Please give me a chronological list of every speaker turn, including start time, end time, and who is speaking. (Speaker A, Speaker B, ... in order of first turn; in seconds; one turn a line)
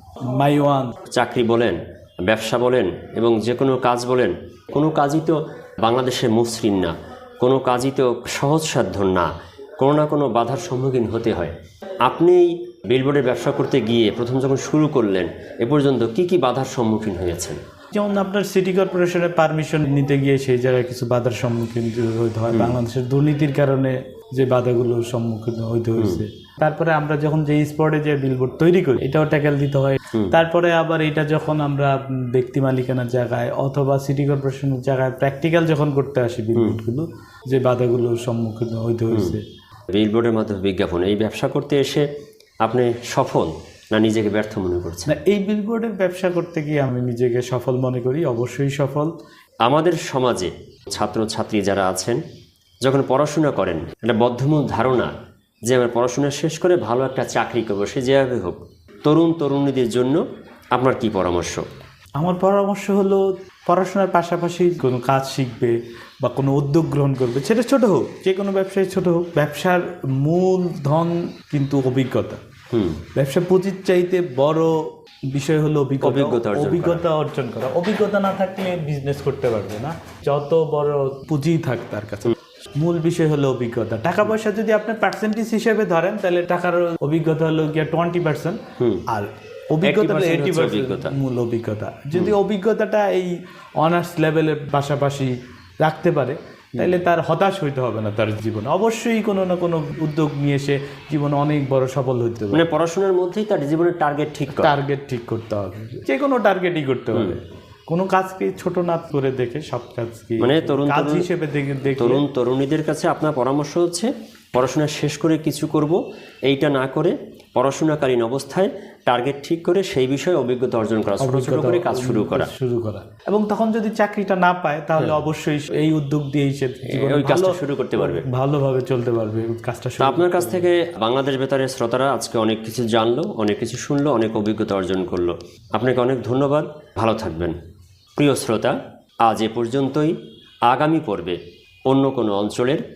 Speaker A: 0.3-0.9
Speaker B: 1.1-17.6
Speaker A: 17.9-39.4
Speaker B: 26.0-26.2
Speaker B: 39.1-39.4
Speaker B: 39.9-42.1
Speaker B: 42.6-45.1
Speaker A: 45.0-49.1
Speaker B: 49.6-52.2
Speaker B: 52.8-55.1
Speaker B: 55.7-61.6
Speaker A: 62.2-72.4
Speaker B: 72.7-73.0
Speaker A: 73.2-74.7
Speaker A: 75.3-102.7
Speaker B: 76.0-77.0
Speaker B: 89.8-91.1
Speaker B: 96.8-97.0
Speaker B: 102.5-104.8
Speaker A: 104.5-112.2
Speaker B: 107.1-107.4
Speaker B: 110.4-111.3
Speaker B: 112.0-122.5
Speaker A: 121.2-130.7
Speaker B: 125.0-125.2
Speaker B: 126.9-128.2
Speaker B: 130.0-137.6
Speaker B: 138.2-142.8